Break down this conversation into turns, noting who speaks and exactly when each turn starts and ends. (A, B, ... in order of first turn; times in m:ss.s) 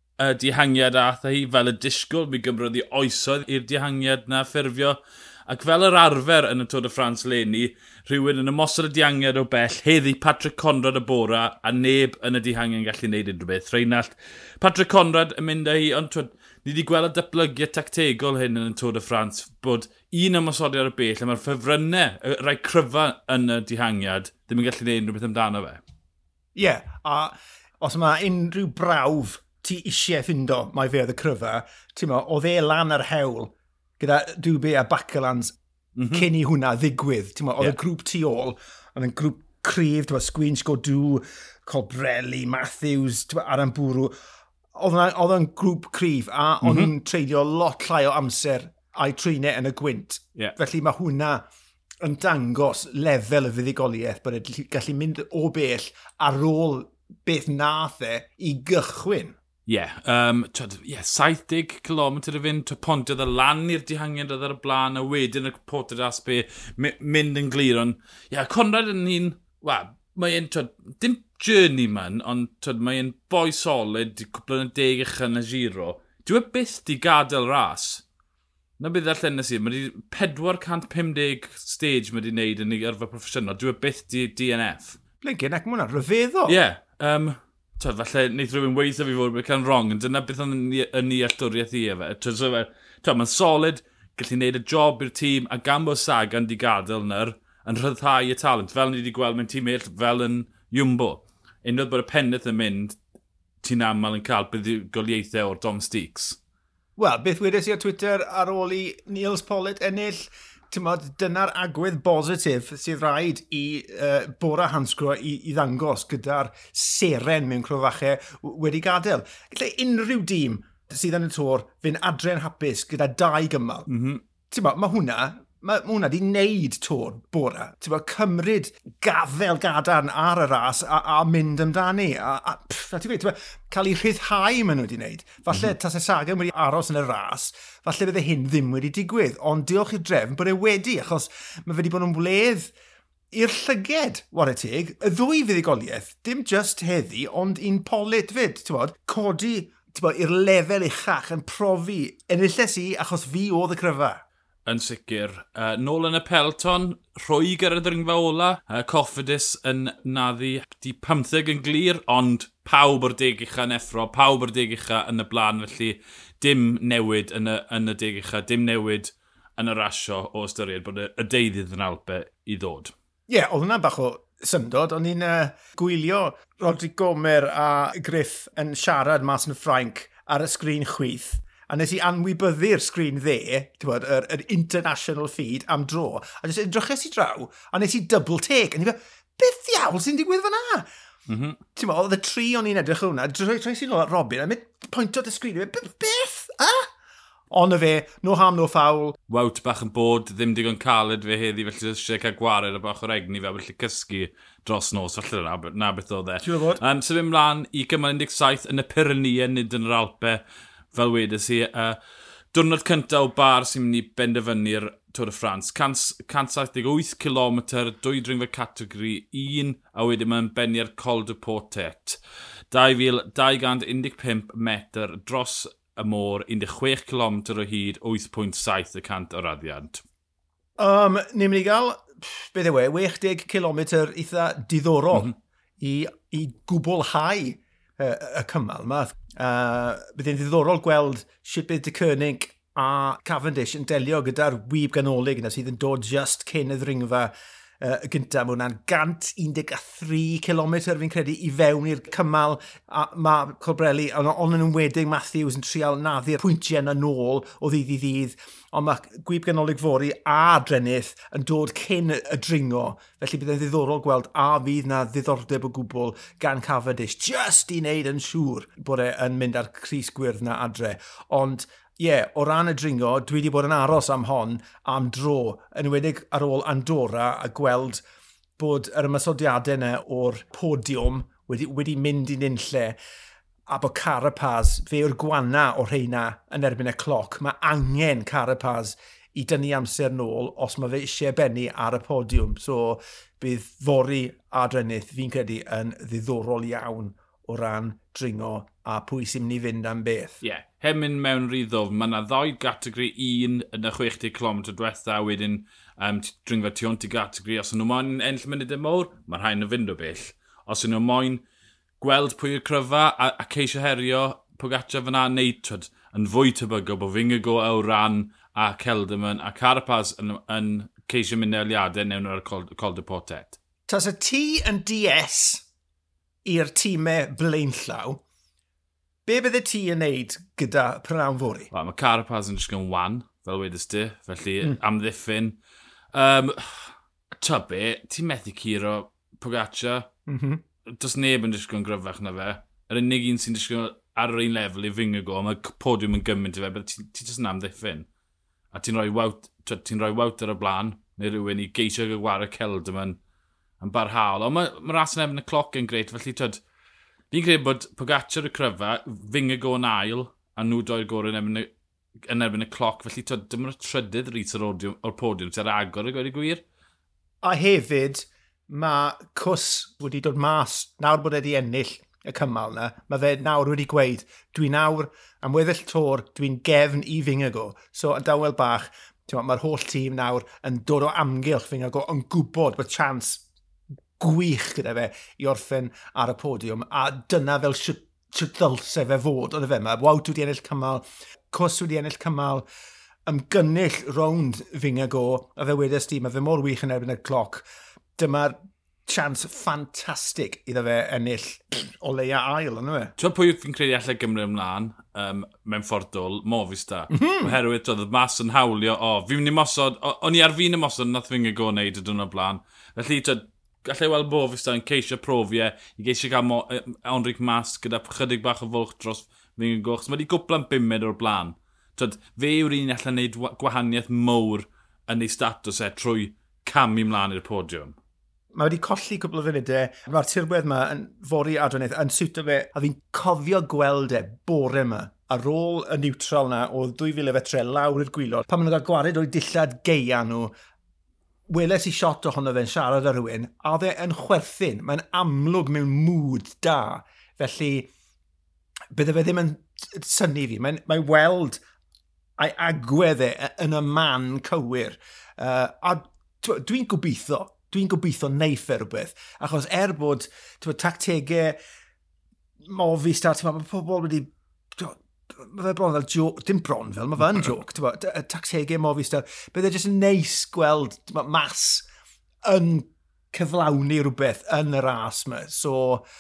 0:00.2-0:25.8 A
0:26.5-0:35.6 B
0:36.0-0:36.3 A
0:36.1-0:44.1 B
0:44.7-0:51.4 B
0:46.6-0:46.9 A
0:52.0-0:59.4 B
0:59.7-1:18.0 A
1:18.8-1:25.0 A
1:25.2-1:26.6 B
1:26.4-1:43.0 A
1:43.6-1:46.4 A
1:47.0-2:03.9 B
2:03.9-2:04.2 A
2:04.5-2:22.7 B
2:23.3-2:34.2 B
2:34.6-2:52.9 A
2:53.3-3:10.9 B
3:11.3-3:11.6 A
3:11.8-3:16.9 B
3:17.5-3:19.2 B
3:19.3-3:30.4 A
3:26.4-3:26.8 B
3:30.9-3:32.0 A
3:32.5-3:42.2 A
3:42.7-3:50.0 A
3:50.8-4:38.0 B
4:38.6-4:43.0 B
4:43.7-5:00.4 B
5:00.4-5:11.4 A
5:12.0-5:23.6 A
5:23.9-5:25.6 B
5:26.4-5:28.2 B
5:29.2-5:31.7 B
5:31.7-5:35.6 A
5:36.1-5:40.0 A
5:40.3-5:40.6 B
5:40.9-5:48.1 A
5:48.7-5:53.2 A
5:53.8-5:56.6 A
5:57.3-6:01.7 A
6:02.3-6:06.6 A
6:07.4-6:23.4 B
6:24.2-6:32.6 B
6:33.2-6:37.6 B
6:38.2-6:38.6 B
6:39.1-6:43.1 B
6:43.2-7:08.0 A
6:47.1-6:47.5 B
7:08.5-7:20.5 B
7:21.5-7:27.9 B
7:28.9-7:31.6 B
7:32.4-7:41.6 B
7:42.6-7:51.8 B
7:52.4-7:56.0 B